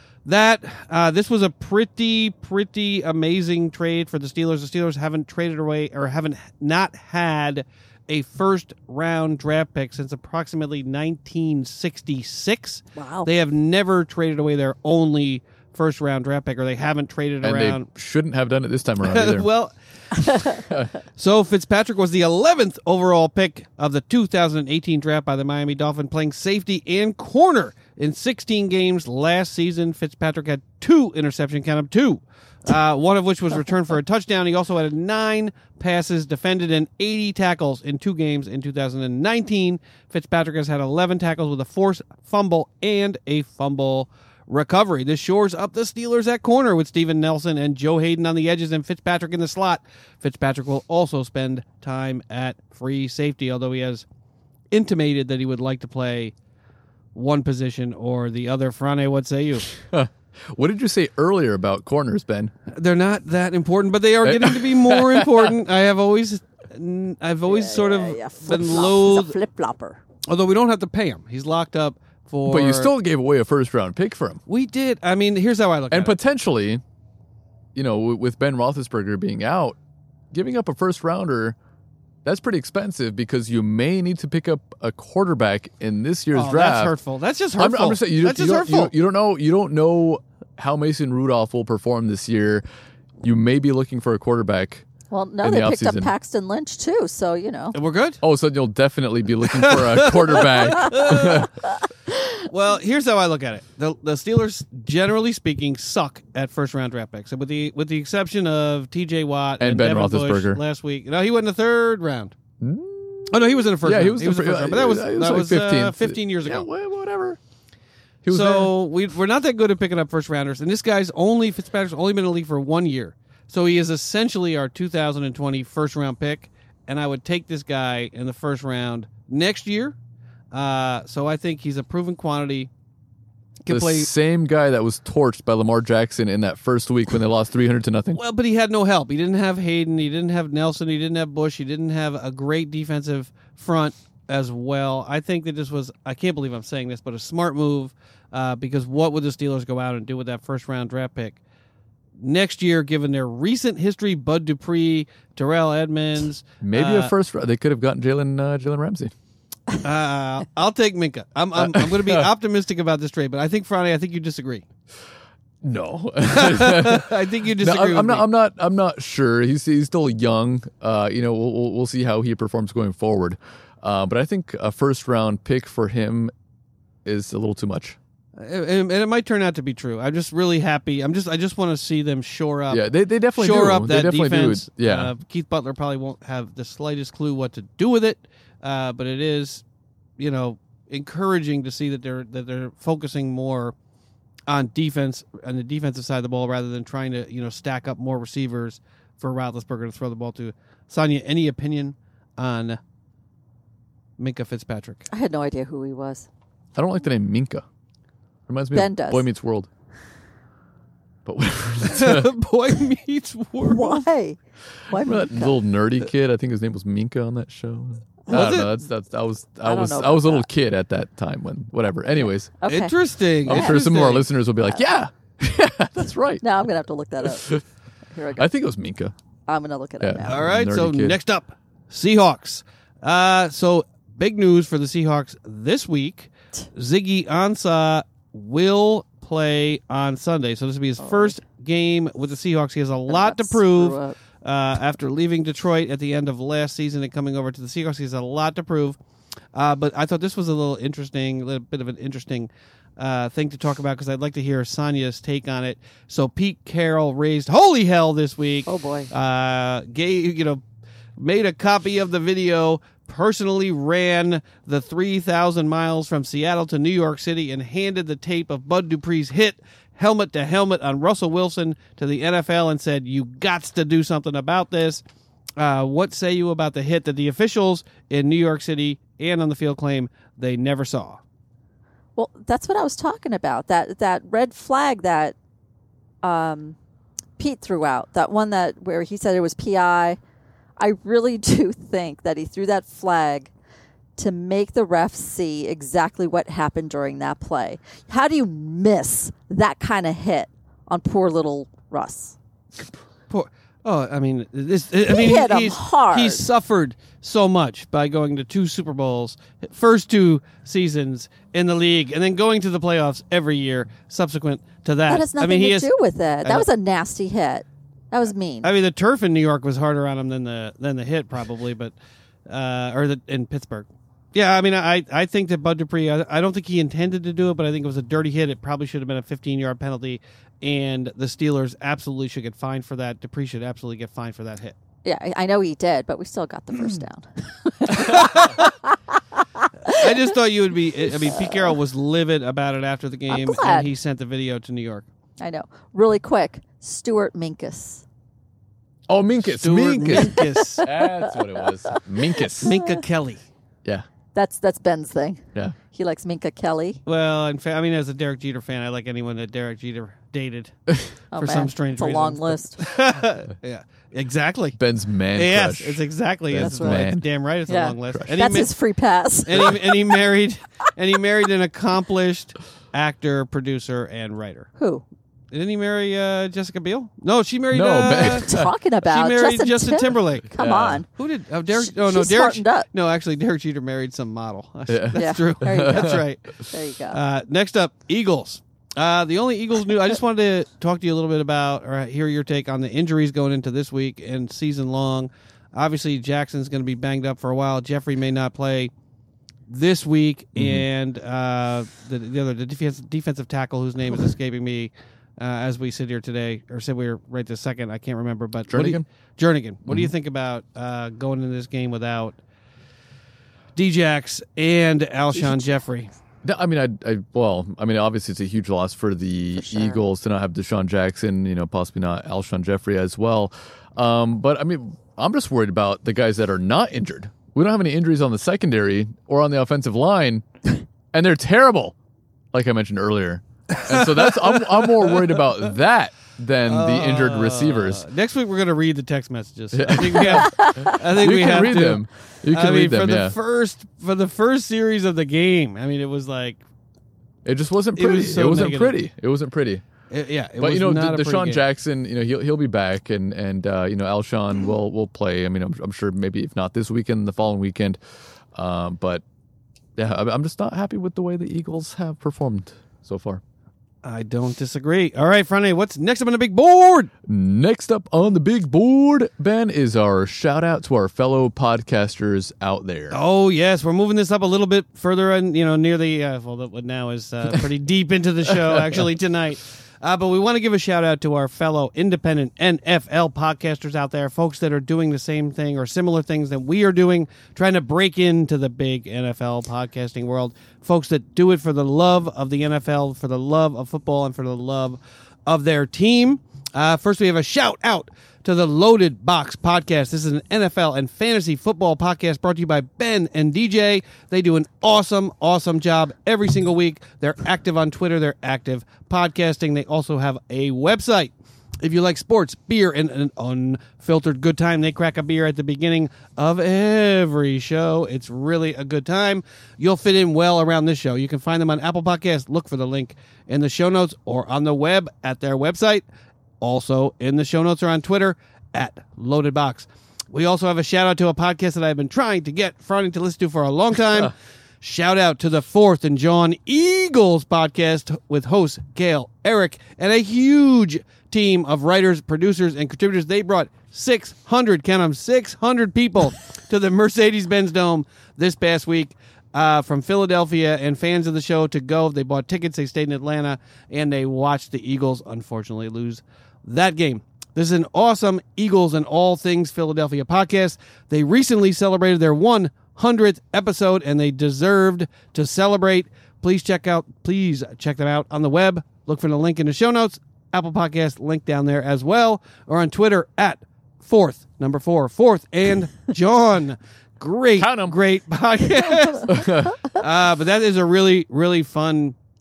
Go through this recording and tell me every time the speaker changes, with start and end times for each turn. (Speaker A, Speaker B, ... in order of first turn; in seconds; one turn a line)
Speaker A: 0.2-17.9
Speaker B: 12.9-13.3
Speaker C: 17.4-19.5
Speaker A: 19.0-20.6
Speaker A: 21.1-54.0
Speaker A: 54.7-56.3
Speaker A: 57.1-59.7
Speaker C: 59.7-62.5
Speaker A: 62.7-69.3
Speaker C: 64.2-65.5
Speaker B: 67.5-70.0
Speaker A: 70.3-72.9
Speaker C: 72.5-74.4
Speaker A: 74.5-76.2
Speaker C: 75.9-76.8
Speaker C: 77.7-79.8
Speaker C: 80.3-81.5
Speaker C: 82.2-86.9
Speaker A: 86.3-88.9
Speaker C: 87.6-92.6
Speaker C: 93.2-94.9
Speaker B: 95.1-97.8
Speaker C: 95.4-96.1
Speaker A: 97.7-98.2
Speaker C: 98.2-101.5
Speaker A: 99.5-101.5
Speaker A: 102.3-112.3
Speaker C: 109.6-110.6
Speaker C: 112.6-117.4
Speaker A: 113.3-116.7
Speaker C: 118.2-118.7
Speaker A: 118.3-129.9
Speaker A: 130.5-132.7
Speaker A: 133.6-134.1
Speaker C: 133.7-138.2
Speaker A: 138.1-151.4
Speaker A: 152.2-157.1
Speaker C: 156.6-159.1
Speaker A: 159.8-164.7
Speaker C: 161.6-162.3
Speaker C: 165.6-176.3
Speaker A: 166.3-168.2
Speaker C: 177.0-178.0
Speaker A: 178.4-189.6
Speaker C: 182.7-185.1
Speaker A: 190.2-193.7
Speaker A: 194.5-202.8
Speaker A: 204.2-205.1
Speaker B: 205.1-206.3
Speaker C: 206.7-207.6
Speaker C: 208.5-209.7
Speaker B: 208.7-209.3
Speaker C: 211.2-212.3
Speaker A: 211.8-214.0
Speaker B: 213.6-214.4
Speaker B: 214.9-215.6
Speaker C: 214.9-222.6
Speaker A: 218.3-218.7
Speaker B: 219.6-220.4
Speaker B: 222.6-222.9
Speaker A: 222.7-224.3
Speaker C: 223.4-226.4
Speaker B: 223.5-223.8
Speaker B: 226.4-227.6
Speaker B: 228.1-228.5
Speaker C: 228.4-229.1
Speaker B: 229.5-230.4
Speaker C: 230.0-231.2
Speaker A: 230.2-249.0
Speaker B: 241.0-241.3
Speaker B: 243.1-244.1
Speaker A: 249.5-260.6
Speaker B: 258.6-259.1
Speaker A: 261.2-275.0
Speaker A: 275.6-281.2
Speaker B: 282.1-285.3
Speaker B: 286.2-286.8
Speaker B: 287.4-290.2
Speaker B: 290.8-293.5
Speaker B: 294.2-302.4
Speaker A: 303.3-315.9
Speaker B: 305.1-306.4
Speaker B: 315.1-318.7
Speaker A: 318.6-321.9
Speaker A: 322.5-334.7
Speaker B: 335.0-338.7
Speaker A: 337.9-338.6
Speaker A: 339.9-345.1
Speaker B: 341.3-341.6
Speaker B: 343.3-343.9
Speaker B: 345.4-348.0
Speaker C: 349.1-352.7
Speaker A: 349.4-350.9
Speaker A: 352.6-353.4
Speaker B: 352.6-353.0
Speaker B: 354.3-357.0
Speaker A: 357.1-360.7
Speaker B: 361.3-362.8
Speaker A: 361.3-364.8
Speaker C: 364.8-367.2
Speaker A: 365.3-368.7
Speaker B: 366.6-367.1
Speaker B: 367.7-370.1
Speaker C: 368.1-368.4
Speaker A: 369.4-374.7
Speaker B: 374.8-375.0
Speaker A: 375.5-378.5
Speaker C: 377.7-378.7
Speaker B: 378.1-381.1
Speaker A: 379.0-380.5
Speaker C: 380.6-381.0
Speaker A: 381.1-398.9
Speaker B: 381.7-382.9
Speaker C: 384.9-386.2
Speaker B: 385.1-387.2
Speaker A: 399.7-412.4
Speaker C: 400.6-400.9
Speaker C: 408.7-409.0
Speaker C: 409.9-410.1
Speaker A: 413.8-416.1
Speaker B: 415.4-415.7
Speaker C: 416.4-430.4
Speaker B: 419.6-420.0
Speaker C: 431.1-431.9
Speaker C: 432.5-438.0
Speaker A: 433.7-435.4
Speaker A: 436.6-446.6
Speaker C: 439.7-443.4
Speaker B: 440.4-440.9
Speaker C: 447.4-449.8
Speaker A: 447.9-449.0
Speaker A: 450.1-451.6
Speaker C: 450.6-458.0
Speaker C: 458.5-459.2
Speaker C: 459.9-463.4
Speaker A: 464.0-467.1
Speaker C: 467.3-473.2
Speaker A: 473.1-526.0
Speaker A: 526.6-582.1
Speaker C: 577.6-578.0
Speaker C: 579.3-579.8